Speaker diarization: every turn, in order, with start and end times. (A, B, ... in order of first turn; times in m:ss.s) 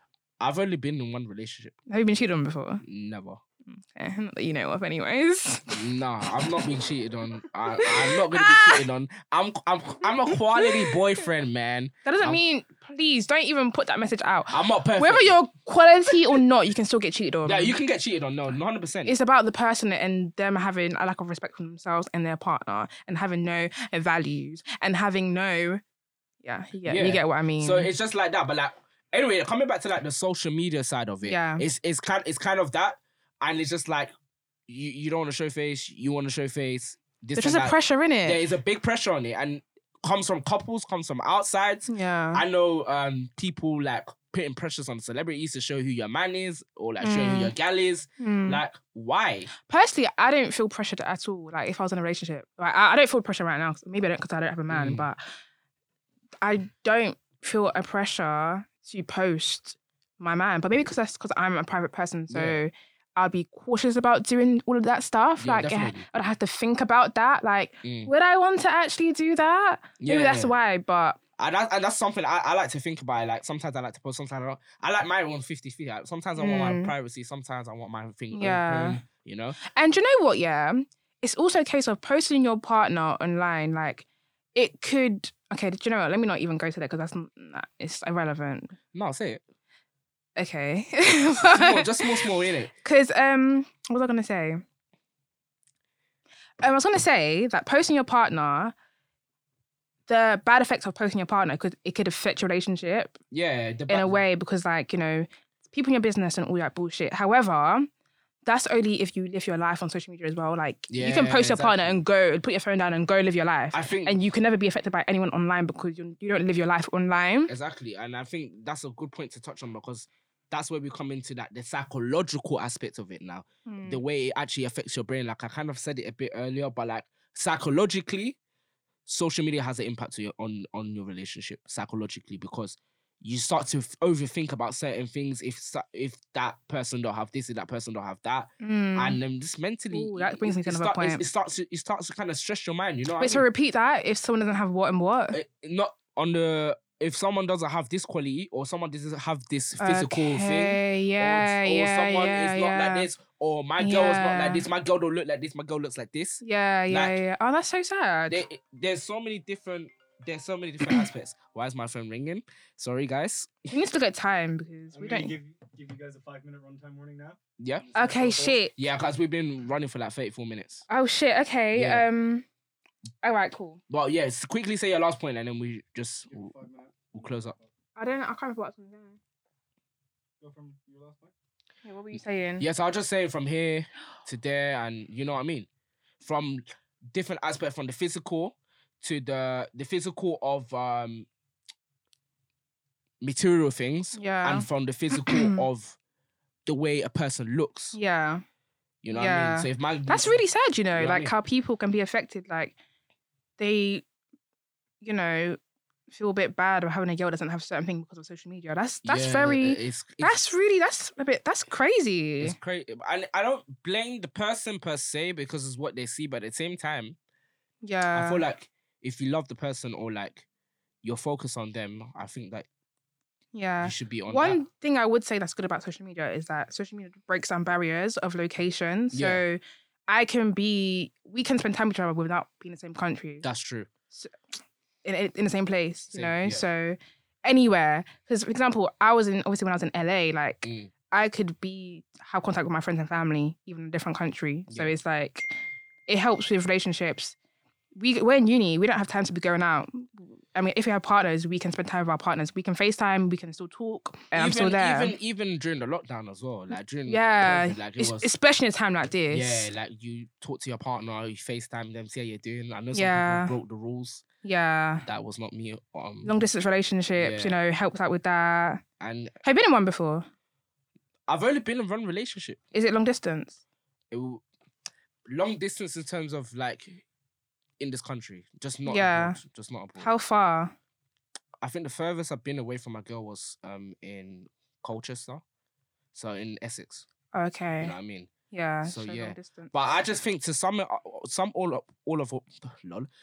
0:00.4-0:01.7 A
0:01.9-0:02.8 B
0:02.8-0:03.4 A
0:03.7-0:05.8 B
0:05.7-0:12.4 A
0:07.8-0:08.8 B
0:10.6-0:11.0 B
0:12.0-0:17.8 B
0:14.5-0:15.4 A
0:17.4-0:19.1 A
0:19.0-0:25.8 B
0:26.4-0:27.9 B
0:26.8-0:34.1 A
0:31.2-0:31.6 B
0:34.7-0:49.5 A
0:37.4-0:38.4 B
0:41.9-0:42.4 B
0:47.0-0:47.5 B
0:48.2-0:48.6 B
0:49.6-0:55.2 B
0:54.7-0:55.0 A
0:56.4-1:11.2 B
1:02.3-1:02.6 A
1:05.4-1:06.0 A
1:07.8-1:08.1 A
1:10.0-1:10.5 A
1:11.4-1:19.6 A
1:16.4-1:16.9 B
1:18.3-1:19.0 B
1:19.6-1:28.7 B
1:28.9-1:29.4 A
1:30.4-1:32.3 B
1:31.4-1:32.7 A
1:32.8-1:34.6 B
1:36.6-1:38.7 B
1:40.1-1:43.2 B
1:43.3-1:44.2 A
1:43.9-1:47.9 B
1:48.4-1:57.5 B
1:50.9-1:52.0 A
1:53.7-1:54.2 A
1:57.5-2:08.4 A
2:03.7-2:04.0 B
2:09.0-2:23.4 A
2:18.6-2:19.2 B
2:19.9-2:21.2 B
2:23.2-2:25.4 B
2:25.3-2:37.2 A
2:29.8-2:33.1 B
2:33.8-2:34.6 B
2:36.4-2:38.4 B
2:38.3-2:43.7 A
2:43.7-2:45.3 B
2:44.9-2:48.6 C
2:47.6-2:47.9 A
2:47.9-2:48.7 B
2:48.7-2:50.8 A
2:50.9-2:52.4 B
2:51.7-2:52.0 A
2:53.2-2:53.8 B
2:53.9-2:56.5 A
2:56.3-2:57.7 C
2:57.1-2:57.6 A
2:58.0-2:59.2 B
3:00.4-3:01.3 C
3:01.8-3:02.6 B
3:02.6-3:05.7 A
3:06.2-3:11.3 A
3:13.2-3:16.0 A
3:14.1-3:15.6 B
3:16.6-3:18.0 A
3:17.9-3:18.4 B
3:19.0-3:20.4 A
3:19.1-3:22.8 B
3:20.9-3:21.3 A
3:23.6-3:24.0 B
3:25.0-3:25.6 B
3:26.1-3:32.6 B
3:29.0-3:30.4 A
3:32.4-3:37.2 A
3:37.8-3:38.4 B
3:38.1-3:40.4 A
3:41.0-3:42.7 A
3:43.5-3:53.4 B
3:43.8-3:44.6 A
3:49.1-3:49.4 A
3:53.4-3:53.9 A
3:55.0-4:05.5 B
3:56.1-3:56.6 A
4:00.6-4:00.9 A
4:04.7-4:04.9 A
4:06.1-4:07.4 B
4:08.0-4:15.2 B
4:14.3-4:18.3 A
4:17.0-4:19.7 B
4:19.3-4:24.2 A
4:22.9-4:23.6 B
4:24.4-4:25.1 B
4:25.0-4:26.3 A
4:26.2-4:28.8 B
4:27.2-4:27.6 A
4:29.0-4:29.4 A
4:29.4-4:30.3 B
4:31.3-4:32.6 A
4:32.7-4:33.6 B
4:34.1-4:34.4 A
4:35.3-4:37.0 A
4:37.8-4:40.1 A
4:38.8-4:39.4 B
4:40.0-4:40.7 B
4:41.6-4:45.4 A
4:46.1-4:47.1 A
4:47.3-4:47.9 B
4:47.8-4:48.3 A
4:48.5-4:49.7 B
4:48.8-4:53.1 A